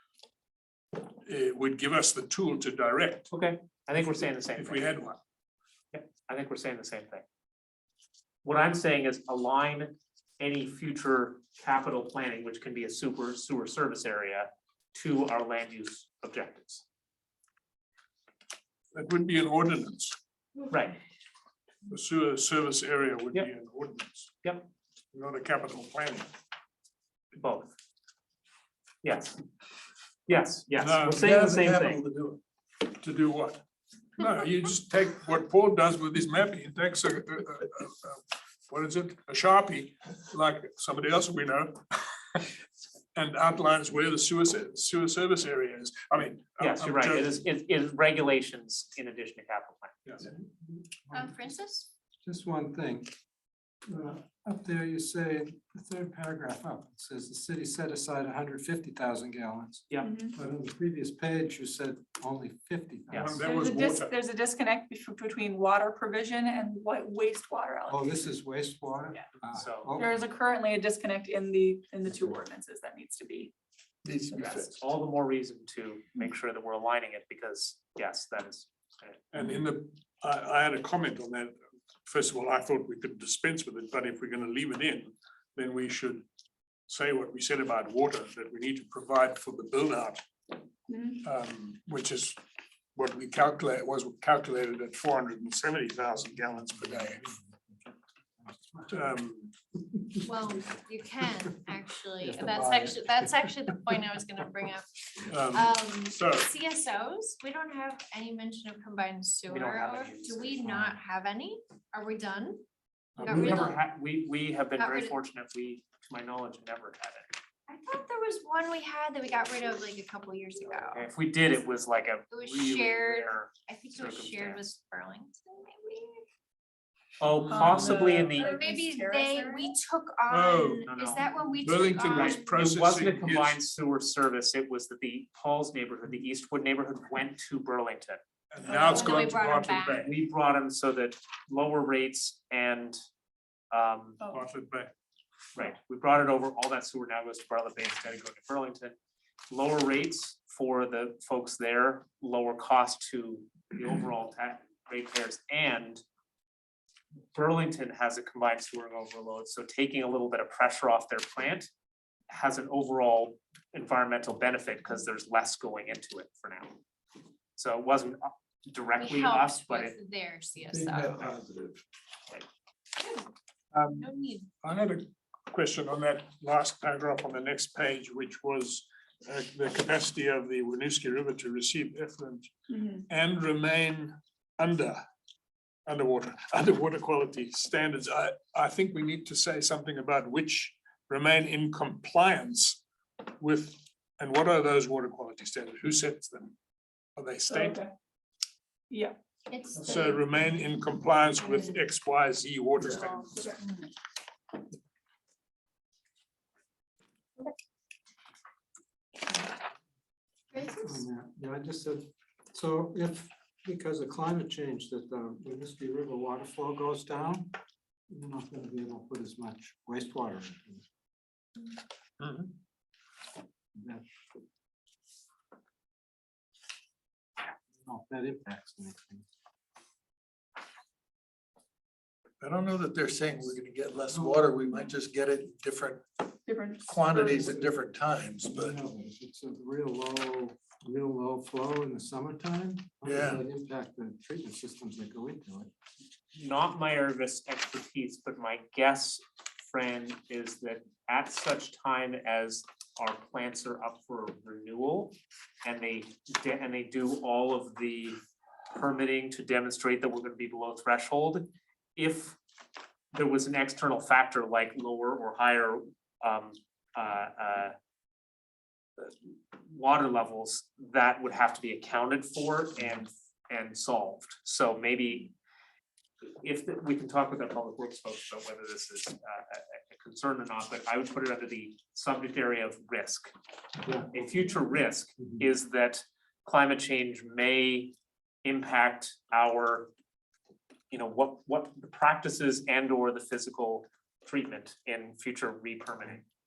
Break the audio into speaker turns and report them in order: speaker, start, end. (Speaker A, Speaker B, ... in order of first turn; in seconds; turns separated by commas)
Speaker A: 1.2-3.3, Speaker B: 3.3-5.0, Speaker A: 4.5-5.2, Speaker B: 5.9-7.2, Speaker B: 8.4-16.8, Speaker A: 18.9-20.1, Speaker B: 20.7-21.0, Speaker A: 21.9-24.3, Speaker A: 25.1-26.3, Speaker B: 27.4-27.7, Speaker B: 29.0-29.4, Speaker B: 30.3-32.0, Speaker A: 30.8-31.8, Speaker C: 31.2-32.4, Speaker A: 32.9-33.6, Speaker A: 34.2-41.8, Speaker A: 43.1-47.4, Speaker B: 46.6-50.2, Speaker D: 51.1-51.9, Speaker E: 52.2-53.1, Speaker E: 53.9-63.3, Speaker F: 60.0-60.4, Speaker B: 63.1-63.4, Speaker A: 63.1-64.1, Speaker F: 63.4-68.3, Speaker E: 67.9-70.2, Speaker B: 69.5-70.0, Speaker F: 70.0-73.5, Speaker C: 74.0-74.8, Speaker B: 74.3-79.2, Speaker A: 79.3-86.2, Speaker A: 86.9-90.3, Speaker F: 90.9-91.2, Speaker A: 91.2-92.4, Speaker A: 92.9-97.4, Speaker E: 97.0-97.5, Speaker E: 98.4-99.0, Speaker A: 98.9-99.5, Speaker D: 100.2-104.9, Speaker E: 102.2-103.1, Speaker A: 105.3-106.5, Speaker D: 105.4-112.6, Speaker B: 109.5-110.9, Speaker D: 113.2-113.8, Speaker B: 113.2-117.3, Speaker A: 113.3-113.7, Speaker D: 114.8-115.2, Speaker D: 117.7-121.1, Speaker B: 120.6-124.7, Speaker D: 122.3-126.2, Speaker B: 127.2-128.5, Speaker F: 127.5-129.8, Speaker A: 127.5-128.0, Speaker D: 128.3-132.5, Speaker A: 130.3-130.8, Speaker B: 130.9-131.4, Speaker A: 131.6-133.6, Speaker B: 132.0-138.2, Speaker A: 138.5-140.1, Speaker F: 138.7-139.0, Speaker D: 138.7-140.0, Speaker B: 139.9-142.9, Speaker B: 143.7-144.2, Speaker A: 144.3-144.9, Speaker B: 145.5-148.9, Speaker B: 149.5-156.0, Speaker B: 157.3-161.7, Speaker B: 162.3-166.8, Speaker B: 167.6-169.9, Speaker D: 168.9-171.2, Speaker C: 170.9-171.8, Speaker A: 173.7-174.1, Speaker D: 173.9-174.5, Speaker A: 174.6-182.5, Speaker F: 182.7-183.0, Speaker A: 183.1-185.0, Speaker A: 185.8-196.5, Speaker A: 197.2-197.8, Speaker F: 197.5-197.9, Speaker F: 198.9-199.2, Speaker D: 199.5-200.2, Speaker F: 199.7-200.1, Speaker A: 199.8-203.4, Speaker F: 202.9-203.9, Speaker D: 210.5-211.0, Speaker E: 210.8-217.5, Speaker E: 218.1-220.8, Speaker E: 223.8-224.0, Speaker E: 227.8-229.2, Speaker C: 232.4-236.2, Speaker E: 234.1-234.9, Speaker F: 236.4-237.4, Speaker C: 236.8-238.8, Speaker E: 237.3-237.7, Speaker E: 238.5-245.7, Speaker A: 243.0-243.4, Speaker B: 246.3-262.4, Speaker B: 263.1-267.7, Speaker B: 269.0-275.3, Speaker B: 276.4-283.3, Speaker E: 283.8-284.1, Speaker B: 283.9-289.9, Speaker B: 290.9-296.2